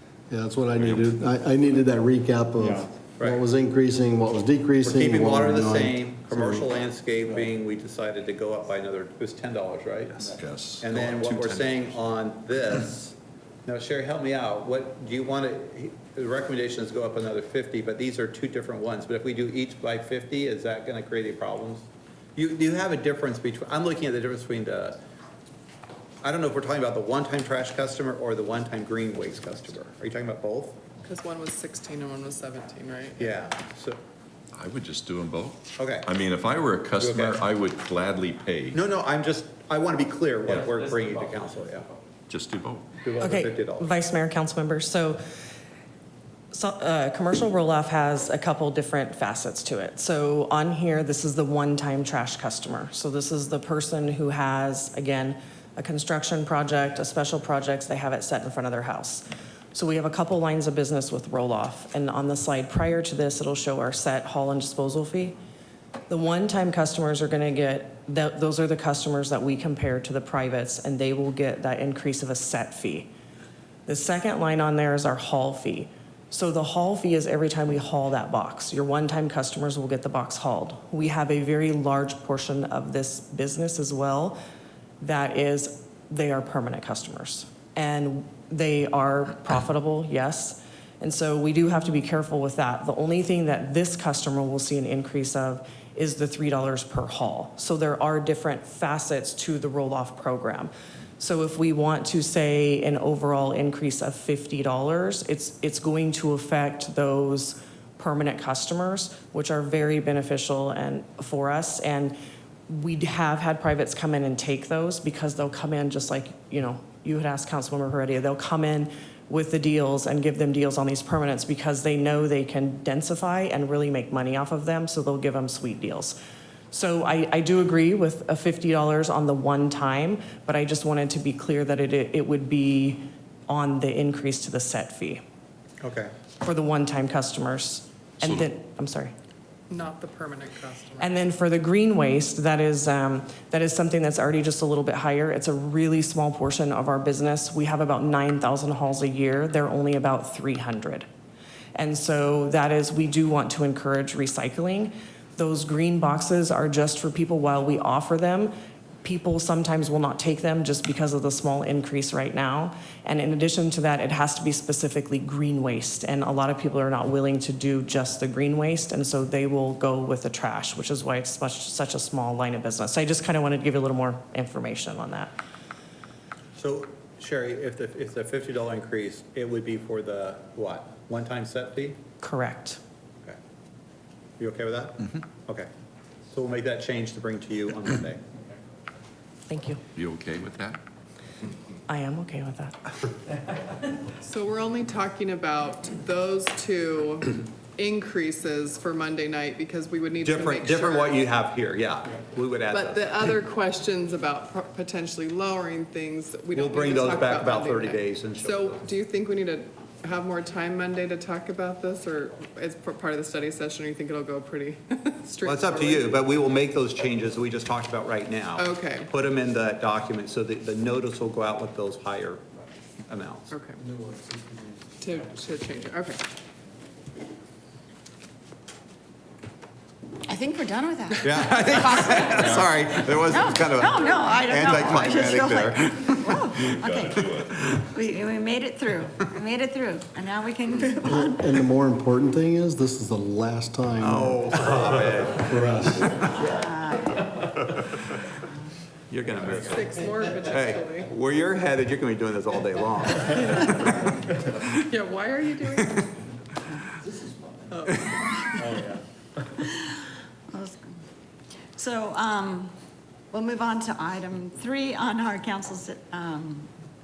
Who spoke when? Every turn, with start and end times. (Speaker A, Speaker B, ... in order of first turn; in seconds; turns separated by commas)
Speaker A: 0.3-6.6, Speaker B: 0.8-1.2, Speaker C: 4.8-25.0, Speaker B: 10.2-12.0, Speaker C: 26.2-30.8, Speaker D: 31.0-33.4, Speaker C: 33.2-34.0, Speaker B: 34.5-38.8, Speaker C: 35.8-36.1, Speaker C: 37.0-37.4, Speaker C: 38.7-41.9, Speaker B: 42.3-42.9, Speaker C: 43.0-43.9, Speaker E: 43.2-45.2, Speaker E: 46.5-65.3, Speaker E: 66.1-73.1, Speaker E: 73.8-84.4, Speaker E: 85.0-112.2, Speaker E: 112.7-126.2, Speaker E: 126.7-135.2, Speaker C: 135.8-136.1, Speaker E: 136.4-139.1, Speaker D: 139.7-141.1, Speaker E: 141.0-151.1, Speaker E: 151.7-175.3, Speaker C: 176.6-182.0, Speaker E: 182.2-182.8, Speaker C: 184.4-185.7, Speaker C: 186.3-188.2, Speaker E: 189.5-189.8, Speaker B: 189.9-190.8, Speaker E: 191.9-192.8, Speaker D: 194.2-201.2, Speaker C: 200.2-203.3, Speaker D: 202.7-216.1, Speaker C: 206.5-208.8, Speaker C: 215.4-222.4, Speaker D: 218.6-219.1, Speaker C: 223.1-223.5, Speaker D: 223.5-223.8, Speaker D: 225.0-226.2, Speaker F: 230.2-232.6, Speaker C: 231.2-236.4, Speaker F: 233.3-241.6, Speaker B: 236.5-237.7, Speaker A: 241.0-244.4, Speaker C: 244.0-246.5, Speaker A: 245.5-246.1, Speaker F: 246.4-247.5, Speaker C: 249.1-249.8, Speaker D: 249.6-251.1, Speaker C: 250.4-254.2, Speaker D: 253.3-254.0, Speaker D: 254.6-256.1, Speaker D: 257.7-258.4, Speaker F: 259.6-260.0, Speaker F: 260.5-260.9, Speaker F: 261.8-262.7, Speaker F: 263.3-266.7